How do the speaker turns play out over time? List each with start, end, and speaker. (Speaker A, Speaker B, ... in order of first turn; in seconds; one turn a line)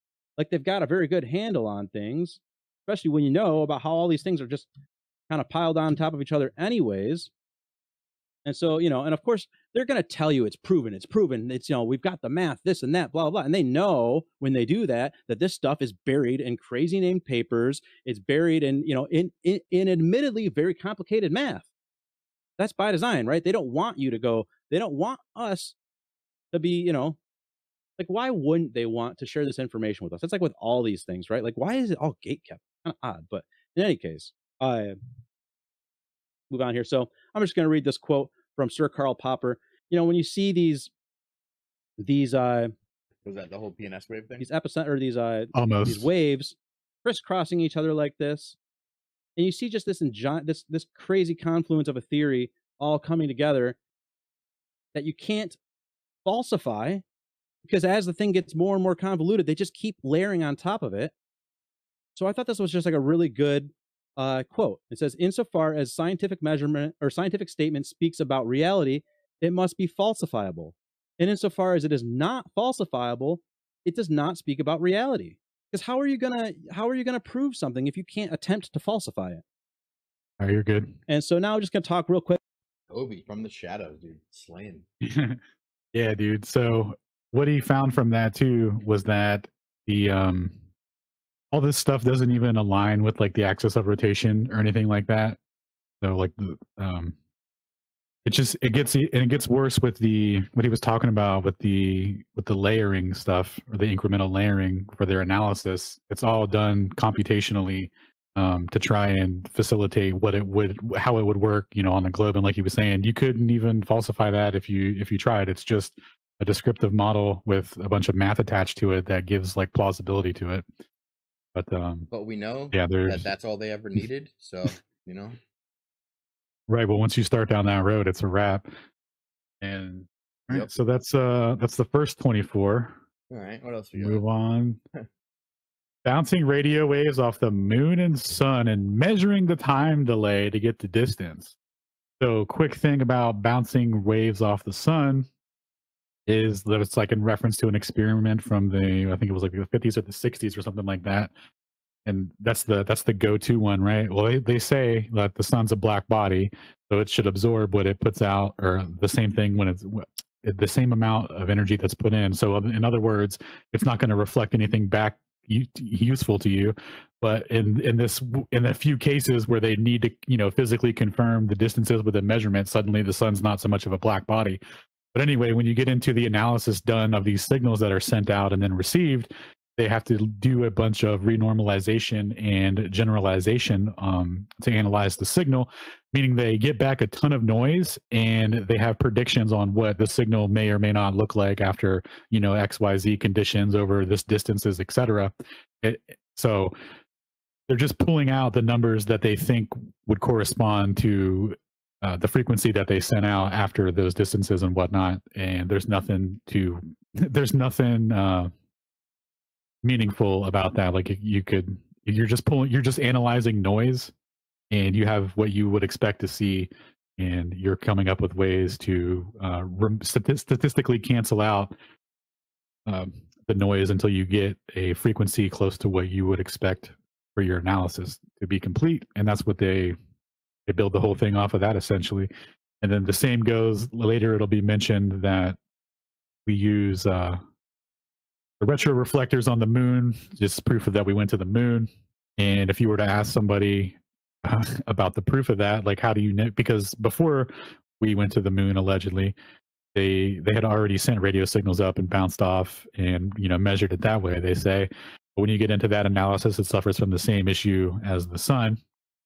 Speaker A: 0.4-4.7
Speaker A: 5.3-7.3
Speaker A: 8.4-21.7
Speaker A: 22.6-25.7
Speaker A: 26.5-27.2
Speaker A: 28.0-35.0
Speaker A: 36.5-40.9
Speaker A: 42.0-42.7
Speaker B: 43.2-44.5
Speaker A: 44.4-48.6
Speaker C: 45.5-46.1
Speaker A: 49.4-53.8
Speaker A: 54.9-55.6
Speaker A: 56.2-57.0
Speaker A: 57.6-61.1
Speaker A: 62.1-79.4
Speaker C: 80.4-80.9
Speaker A: 81.1-82.4
Speaker B: 82.9-84.8
Speaker C: 85.0-85.4
Speaker C: 85.9-90.5
Speaker C: 91.5-95.4
Speaker C: 96.0-97.1
Speaker C: 98.2-120.7
Speaker C: 121.5-122.1
Speaker B: 122.1-125.4
Speaker C: 122.7-123.3
Speaker C: 126.7-128.7
Speaker C: 129.6-132.9
Speaker B: 133.3-134.2
Speaker C: 134.0-134.8
Speaker C: 136.0-141.6
Speaker C: 142.2-145.3
Speaker C: 146.3-151.3
Speaker C: 152.1-174.6
Speaker C: 175.1-196.7
Speaker C: 197.7-208.5
Speaker C: 209.8-214.1
Speaker C: 214.7-221.7
Speaker C: 222.8-229.9
Speaker C: 230.7-235.6
Speaker C: 236.4-237.4
Speaker C: 238.6-249.3
Speaker C: 249.9-258.8